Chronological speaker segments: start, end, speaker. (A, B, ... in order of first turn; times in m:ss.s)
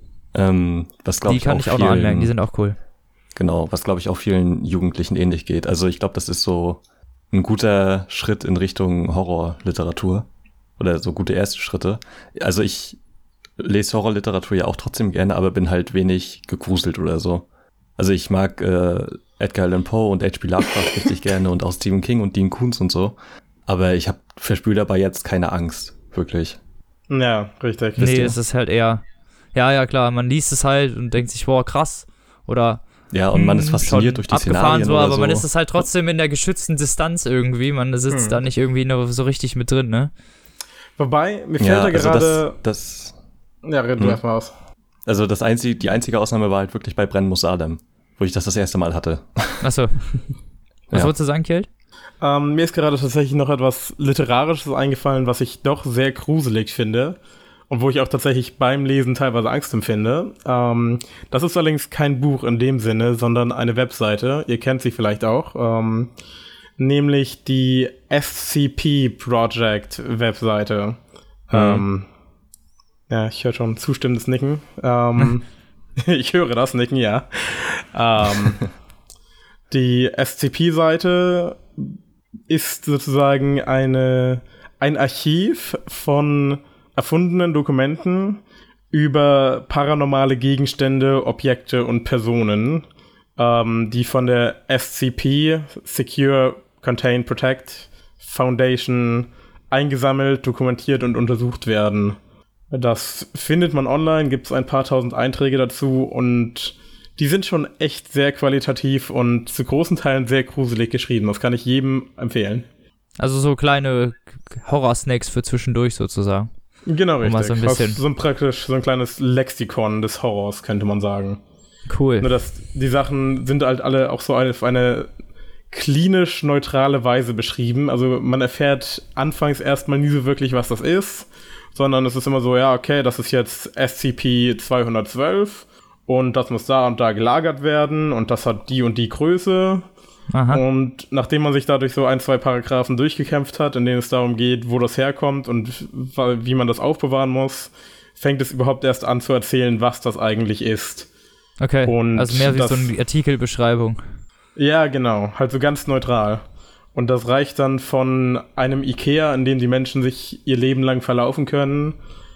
0:00.3-0:02.3 A
0:01.2-0:02.8 B
0:03.4-0:10.3 A
0:10.8-0:13.0 A
0:13.6-0:17.5 A
0:18.0-0:23.2 A
0:23.7-0:26.6 A
0:27.1-0:28.0 C
0:28.0-0:28.4 A
0:28.0-0:29.0 B
0:29.5-0:40.1 B
0:33.1-0:35.5 A
0:38.1-0:38.4 C
0:41.0-0:42.6 C
0:41.6-0:43.2 A
0:43.6-0:44.5 C
0:45.1-0:49.6 A
0:49.6-0:50.0 B
0:50.9-0:51.7 B
0:52.2-0:57.2 C
0:57.7-1:06.1 C
1:06.8-1:11.0 C
1:11.5-1:12.1 C
1:11.5-1:11.8 A
1:13.1-1:15.5 C
1:16.0-1:18.7 C
1:19.7-1:22.0 C
1:22.5-1:28.4 C
1:28.9-1:32.9 C
1:33.4-1:42.2 C
1:42.7-1:52.7 C
1:53.2-1:56.5 B
1:56.9-2:01.4 C
1:57.2-1:58.0 B
2:01.9-2:02.3 B
2:02.2-2:05.1 C
2:05.7-2:19.9 C
2:20.3-2:20.6 B
2:20.5-2:31.1 C
2:31.6-2:34.0 B
2:31.9-2:32.9 C
2:34.6-2:36.4 C
2:36.9-2:42.0 C